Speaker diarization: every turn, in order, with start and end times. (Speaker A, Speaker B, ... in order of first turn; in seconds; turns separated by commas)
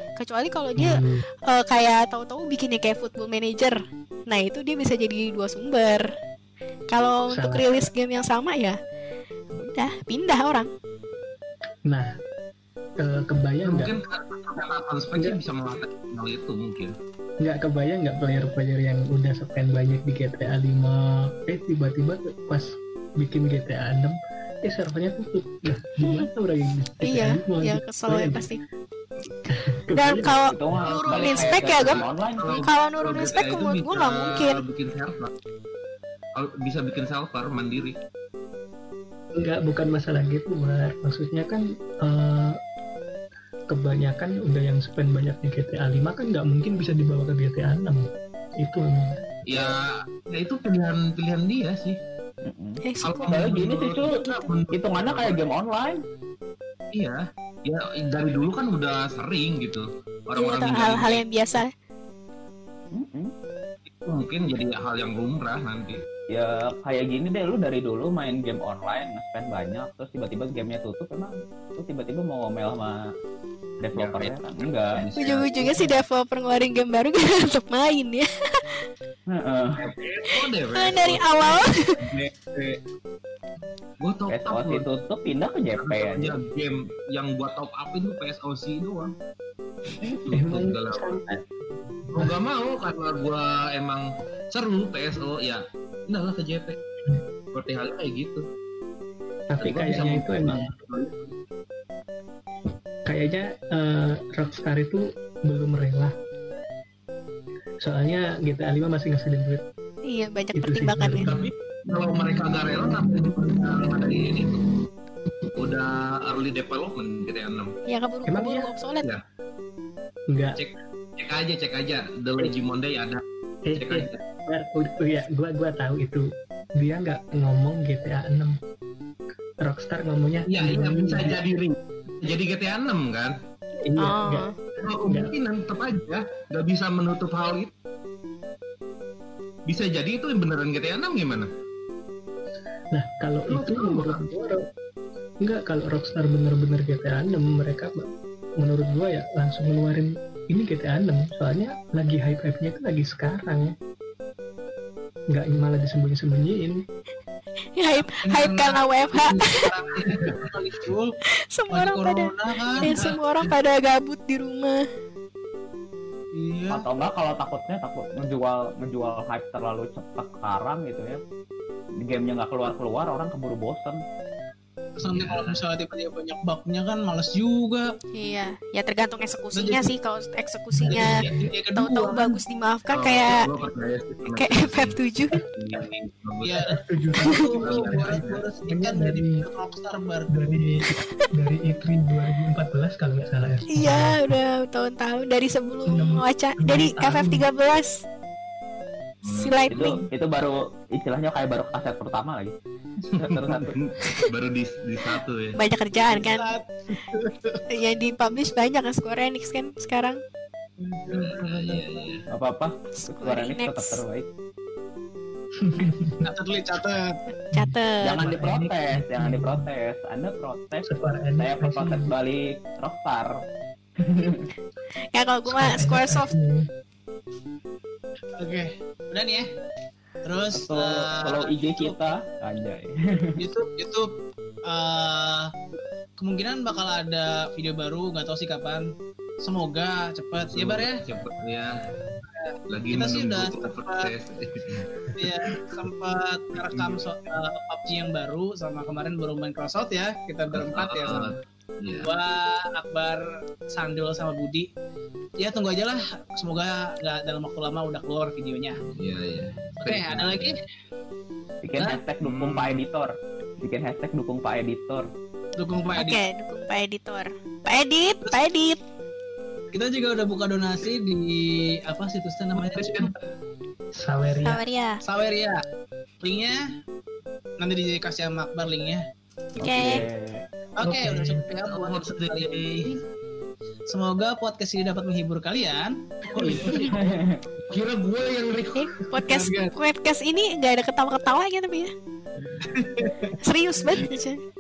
Speaker A: 0.2-3.8, Speaker B: 0.8-1.2, Speaker A: 4.3-6.0, Speaker A: 6.9-8.8, Speaker B: 7.3-7.9, Speaker A: 9.7-10.7, Speaker B: 13.0-14.0, Speaker C: 13.6-16.9, Speaker B: 17.4-28.5, Speaker A: 27.0-28.6, Speaker B: 29.5-30.8, Speaker A: 29.9-32.0, Speaker D: 30.5-32.7, Speaker C: 31.1-35.3, Speaker A: 32.6-34.6, Speaker C: 36.4-38.0, Speaker B: 39.3-42.6, Speaker B: 43.7-48.1, Speaker B: 48.6-49.7, Speaker C: 49.5-52.0, Speaker D: 52.5-54.2, Speaker A: 52.8-53.4, Speaker C: 53.0-55.4, Speaker A: 54.1-54.5, Speaker D: 54.7-56.0, Speaker C: 57.0-61.2, Speaker A: 60.4-61.7, Speaker D: 62.9-63.3, Speaker C: 64.0-66.0, Speaker D: 66.3-73.0, Speaker D: 73.8-76.0, Speaker C: 73.9-75.7, Speaker A: 75.2-78.6, Speaker D: 79.3-79.9, Speaker C: 79.8-82.8, Speaker A: 80.8-81.8, Speaker C: 84.0-84.9, Speaker D: 84.3-86.4, Speaker C: 85.8-89.1, Speaker C: 90.0-91.2, Speaker B: 90.3-91.4, Speaker C: 92.1-96.8, Speaker C: 97.5-98.4, Speaker B: 99.5-100.7, Speaker C: 99.6-101.3, Speaker B: 103.0-106.1, Speaker B: 107.8-109.6, Speaker A: 110.1-111.3, Speaker B: 110.5-111.5, Speaker C: 111.2-114.8, Speaker C: 115.5-117.7, Speaker A: 117.9-119.1, Speaker B: 118.3-118.7, Speaker B: 120.3-120.6, Speaker C: 120.5-123.2, Speaker B: 123.7-126.3, Speaker C: 123.8-124.2, Speaker B: 126.8-128.6, Speaker B: 129.6-131.4, Speaker C: 130.5-133.3, Speaker B: 133.8-134.5, Speaker A: 134.0-134.5, Speaker C: 134.8-137.7, Speaker B: 135.1-135.3, Speaker C: 139.7-141.5, Speaker B: 142.9-144.6, Speaker C: 143.5-144.2, Speaker B: 145.4-153.7, Speaker B: 155.3-156.8, Speaker A: 157.8-159.7, Speaker E: 158.1-161.1, Speaker A: 161.5-162.3, Speaker E: 161.7-163.5, Speaker A: 162.8-164.8, Speaker E: 166.4-166.9, Speaker D: 166.7-171.2, Speaker D: 172.1-174.0, Speaker E: 175.0-177.9, Speaker C: 175.1-175.6, Speaker A: 178.1-181.1, Speaker E: 179.6-179.9, Speaker B: 180.7-181.5, Speaker E: 180.9-182.3, Speaker A: 181.7-183.5, Speaker C: 182.9-186.7, Speaker A: 184.3-185.4, Speaker E: 186.4-190.3, Speaker B: 186.7-189.4, Speaker C: 187.6-188.4, Speaker B: 190.3-194.3, Speaker A: 193.7-197.9, Speaker B: 195.9-197.4, Speaker C: 199.2-200.0, Speaker A: 199.3-200.0, Speaker D: 199.7-202.5, Speaker C: 203.1-205.6, Speaker D: 203.2-203.7, Speaker A: 205.6-206.6, Speaker E: 206.1-207.6, Speaker A: 207.7-210.2, Speaker E: 210.8-212.3, Speaker C: 211.1-212.2, Speaker D: 212.3-214.3, Speaker A: 212.9-214.0, Speaker B: 215.6-216.2, Speaker E: 216.2-217.1, Speaker A: 217.5-218.2, Speaker B: 217.5-219.7, Speaker D: 218.0-223.3, Speaker B: 220.9-222.1, Speaker D: 224.0-224.5, Speaker A: 225.1-226.3, Speaker B: 225.5-226.6, Speaker E: 228.4-229.4, Speaker E: 230.2-232.0, Speaker D: 230.5-233.4, Speaker E: 233.4-234.1, Speaker E: 234.7-235.5, Speaker E: 236.2-238.9, Speaker E: 239.4-241.0, Speaker C: 240.4-241.7, Speaker E: 242.3-244.1, Speaker C: 242.7-245.9, Speaker E: 245.2-251.4, Speaker C: 246.7-247.0, Speaker C: 250.5-252.1, Speaker E: 252.0-254.7, Speaker E: 255.4-258.8, Speaker C: 258.9-260.6, Speaker E: 259.8-260.6, Speaker D: 261.6-265.1, Speaker C: 262.2-262.8, Speaker E: 265.6-266.2, Speaker A: 266.0-268.8, Speaker E: 269.7-273.1, Speaker B: 272.7-273.2, Speaker B: 274.0-274.6, Speaker A: 274.4-275.0, Speaker E: 275.0-275.6, Speaker E: 276.2-276.6, Speaker E: 277.6-279.0, Speaker A: 279.6-280.1, Speaker D: 279.6-280.4, Speaker E: 280.8-283.0, Speaker B: 280.8-281.4, Speaker C: 281.6-282.9, Speaker E: 283.9-287.1, Speaker C: 286.4-286.9, Speaker D: 286.9-287.4, Speaker C: 287.7-288.9, Speaker A: 288.8-291.9, Speaker E: 289.1-289.7, Speaker E: 292.6-294.1, Speaker A: 293.4-294.4